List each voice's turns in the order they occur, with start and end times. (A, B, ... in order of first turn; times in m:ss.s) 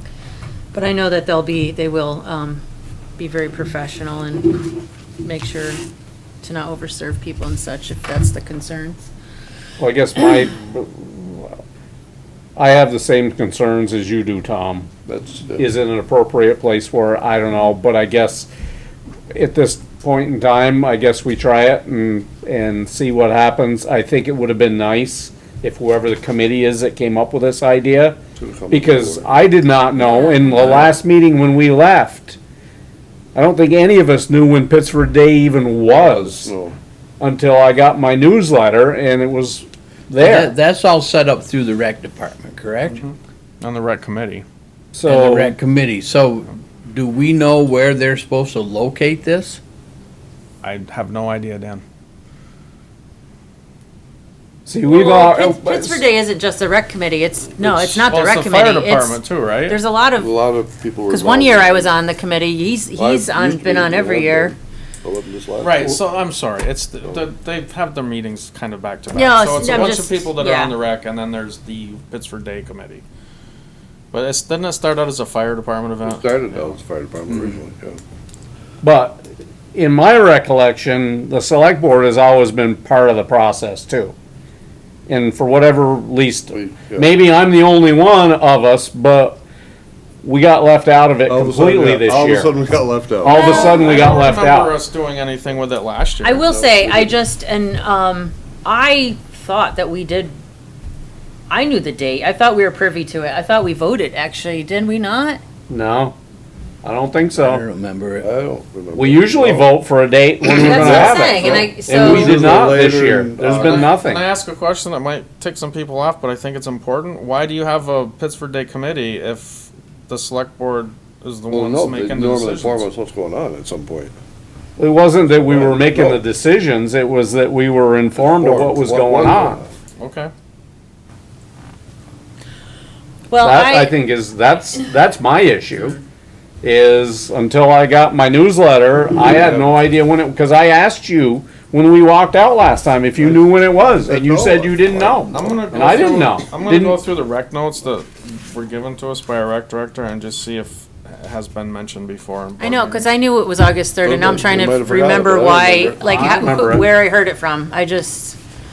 0:00.7-0:02.6 A
0:03.2-0:05.8 A
0:06.4-0:09.0 A
0:09.8-0:11.6 B
0:12.6-0:14.9 B
0:15.1-0:15.7 C
0:15.6-0:18.5 B
0:19.3-0:28.2 B
0:28.4-0:29.3 C
0:28.7-0:32.4 B
0:30.0-0:30.6 A
0:30.6-0:30.9 D
0:33.3-0:36.5 B
0:35.9-0:36.7 C
0:37.2-0:40.5 B
0:40.2-0:43.0 D
0:42.8-0:44.4 E
0:44.9-0:45.6 B
0:45.0-0:49.6 D
0:50.6-0:51.8 E
0:54.7-0:56.0 B
0:54.9-1:00.4 A
0:57.6-0:59.8 E
1:00.2-1:01.9 C
1:01.1-1:04.5 A
1:03.0-1:06.0 C
1:05.6-1:13.0 E
1:09.1-1:10.8 A
1:14.1-1:16.8 E
1:16.0-1:18.0 C
1:18.8-1:24.1 B
1:25.1-1:29.4 B
1:26.5-1:27.1 C
1:30.2-1:32.6 B
1:31.3-1:33.4 C
1:33.2-1:34.7 B
1:33.3-1:34.2 A
1:33.3-1:36.4 E
1:36.2-1:40.4 A
1:36.4-1:37.1 C
1:41.5-1:45.4 A
1:45.7-1:46.2 B
1:46.8-1:47.6 B
1:47.4-1:48.3 D
1:48.2-1:49.7 C
1:48.9-1:54.3 B
1:50.4-1:53.9 C
1:50.5-1:52.3 A
1:53.5-2:02.8 E
2:01.5-2:04.1 C
2:04.8-2:09.6 B
2:05.4-2:06.2 C
2:08.2-2:09.7 C
2:10.0-2:10.3 E
2:13.3-2:14.0 A
2:13.4-2:16.0 B
2:16.6-2:27.0 B
2:19.2-2:19.8 C
2:23.2-2:26.3 C
2:25.3-2:33.1 E
2:32.6-2:38.4 A
2:34.0-2:36.0 C
2:36.0-2:36.9 B